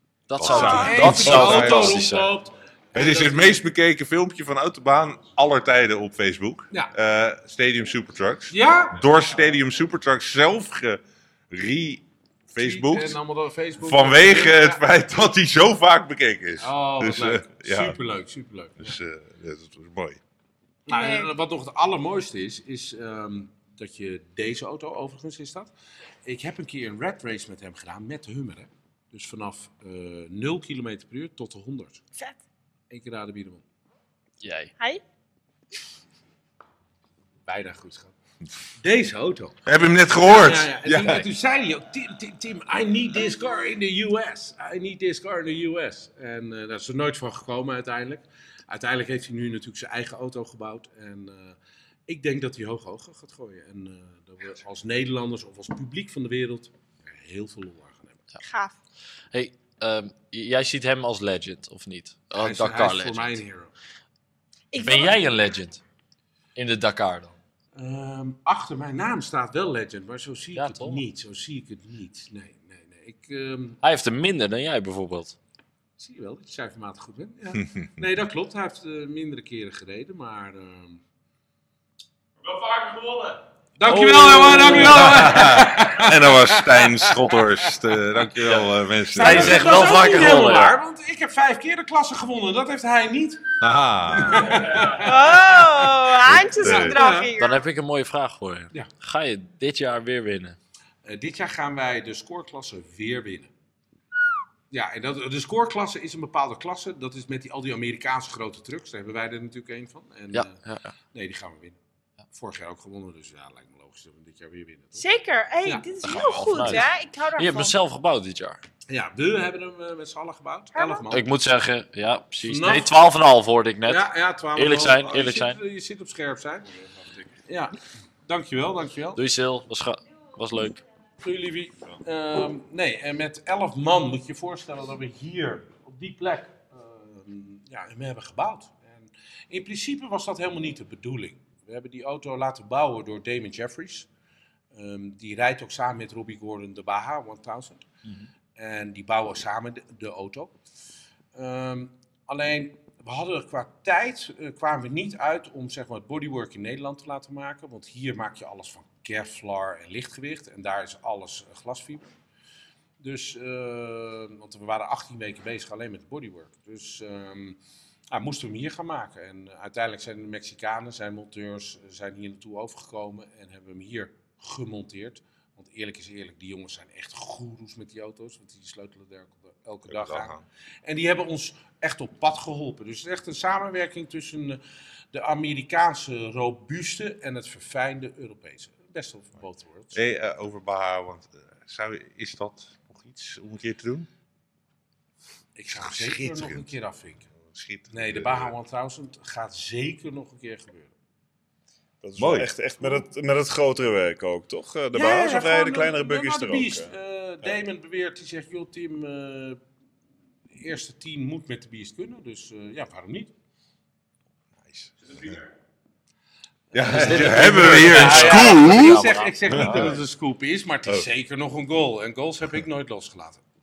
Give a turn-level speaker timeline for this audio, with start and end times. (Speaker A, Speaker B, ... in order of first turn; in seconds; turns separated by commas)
Speaker A: 0.3-2.3, Speaker B: 0.4-2.0, Speaker C: 0.5-1.1, Speaker D: 0.5-3.6, Speaker B: 3.0-13.2, Speaker D: 8.5-9.1, Speaker D: 12.6-14.8, Speaker B: 13.8-18.0, Speaker D: 16.6-19.0, Speaker B: 18.8-20.2, Speaker D: 20.9-25.7, Speaker C: 20.9-21.3, Speaker D: 26.2-32.0, Speaker D: 32.9-33.6, Speaker A: 34.4-34.7, Speaker D: 37.5-38.1, Speaker D: 38.8-39.6, Speaker B: 39.7-41.3, Speaker D: 40.2-51.6, Speaker D: 52.1-58.2, Speaker C: 58.4-58.8, Speaker A: 59.3-63.4, Speaker D: 62.4-63.7, Speaker C: 64.7-65.2, Speaker A: 64.8-65.8, Speaker A: 66.6-67.4, Speaker D: 67.8-73.8, Speaker A: 70.6-71.0, Speaker A: 73.8-75.4, Speaker D: 76.0-81.0, Speaker D: 83.8-93.4, Speaker A: 83.9-85.5, Speaker B: 84.8-89.8, Speaker A: 89.2-90.8, Speaker C: 89.7-90.2, Speaker B: 93.6-94.8, Speaker D: 94.1-96.0, Speaker C: 94.9-97.6, Speaker B: 96.3-97.0, Speaker D: 96.6-97.3, Speaker A: 97.4-100.6, Speaker D: 101.0-103.5, Speaker D: 104.7-110.6, Speaker A: 110.3-110.9, Speaker D: 111.1-111.8, Speaker D: 112.3-115.0, Speaker C: 115.0-117.8, Speaker D: 115.7-116.8, Speaker A: 116.0-118.6, Speaker D: 118.9-121.2, Speaker C: 120.7-121.0, Speaker A: 121.1-125.6, Speaker D: 122.4-122.9, Speaker D: 123.9-126.7, Speaker D: 127.5-129.2, Speaker A: 129.2-130.8, Speaker D: 131.2-144.1, Speaker D: 144.7-147.9, Speaker D: 148.6-150.5, Speaker D: 151.3-162.1, Speaker D: 163.0-167.6, Speaker D: 168.1-180.3, Speaker B: 179.9-180.4, Speaker D: 180.8-184.6, Speaker D: 185.1-190.0, Speaker B: 189.9-194.1, Speaker D: 195.6-197.3, Speaker B: 195.7-196.7, Speaker B: 197.4-198.5, Speaker D: 197.9-200.9, Speaker E: 202.0-206.9, Speaker B: 202.2-202.5, Speaker D: 204.9-209.6, Speaker D: 210.5-213.3, Speaker B: 214.7-215.4, Speaker D: 216.7-223.4, Speaker B: 216.7-220.0, Speaker A: 216.8-219.9